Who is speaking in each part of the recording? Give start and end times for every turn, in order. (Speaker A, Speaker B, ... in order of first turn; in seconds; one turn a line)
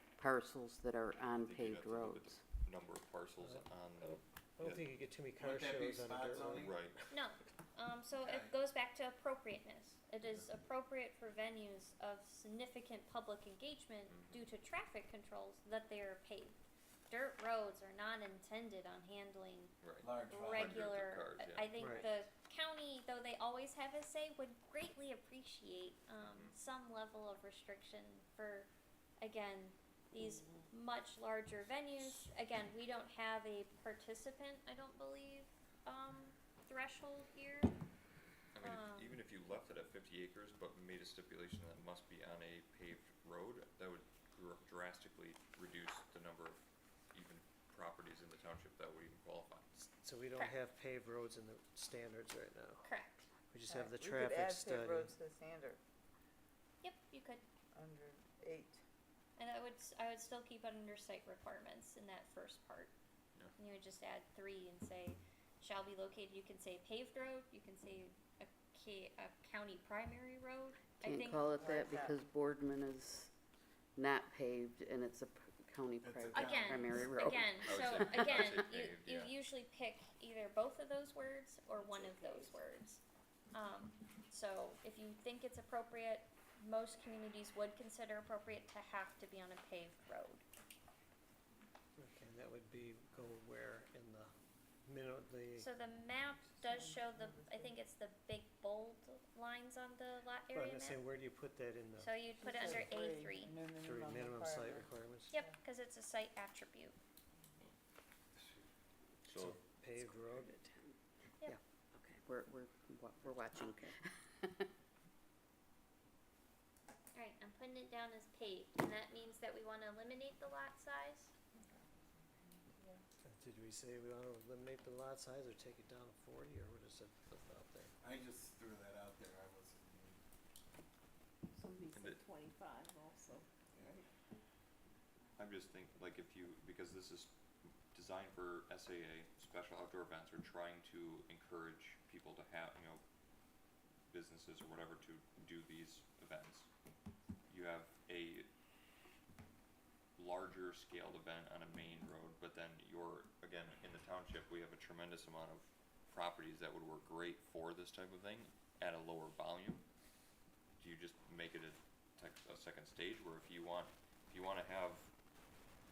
Speaker A: 0.2-2.5
Speaker B: 1.4-4.8
Speaker C: 3.4-6.8
Speaker D: 5.3-6.8
Speaker B: 6.5-7.0
Speaker E: 7.1-16.6
Speaker D: 8.2-8.6
Speaker B: 14.1-14.5
Speaker E: 17.1-19.7
Speaker B: 19.8-22.1
Speaker D: 20.0-20.9
Speaker E: 20.3-28.7
Speaker C: 21.8-22.1
Speaker B: 26.2-26.6
Speaker E: 29.2-37.7
Speaker B: 38.5-49.6
Speaker E: 38.6-39.2
Speaker C: 49.8-52.9
Speaker E: 52.8-53.3
Speaker C: 53.5-55.1
Speaker F: 53.7-55.8
Speaker E: 56.8-57.4
Speaker F: 57.7-58.8
Speaker E: 59.4-62.9
Speaker E: 63.6-71.5
Speaker A: 71.0-73.3
Speaker F: 71.3-72.2
Speaker A: 74.0-77.6
Speaker D: 76.0-77.2
Speaker E: 76.3-83.0
Speaker B: 77.6-79.3
Speaker G: 81.8-82.6
Speaker E: 83.5-90.4
Speaker C: 92.0-94.3
Speaker C: 94.9-95.7
Speaker E: 95.6-101.0
Speaker F: 96.5-97.7
Speaker C: 100.5-102.9
Speaker E: 102.0-103.5
Speaker F: 102.4-105.6
Speaker C: 103.8-105.3
Speaker E: 105.3-107.0
Speaker B: 109.3-109.6
Speaker C: 109.3-110.5
Speaker A: 110.0-110.9
Speaker A: 112.0-114.7
Speaker E: 117.1-121.3
Speaker F: 121.6-123.0
Speaker C: 123.2-127.9
Speaker D: 128.0-130.2
Speaker G: 131.5-133.9
Speaker B: 131.9-132.2
Speaker D: 133.8-134.0
Speaker B: 135.4-137.3
Speaker B: 137.9-143.0
Speaker B: 144.1-146.7
Speaker B: 147.5-148.5
Speaker B: 150.2-159.8
Speaker B: 160.8-165.1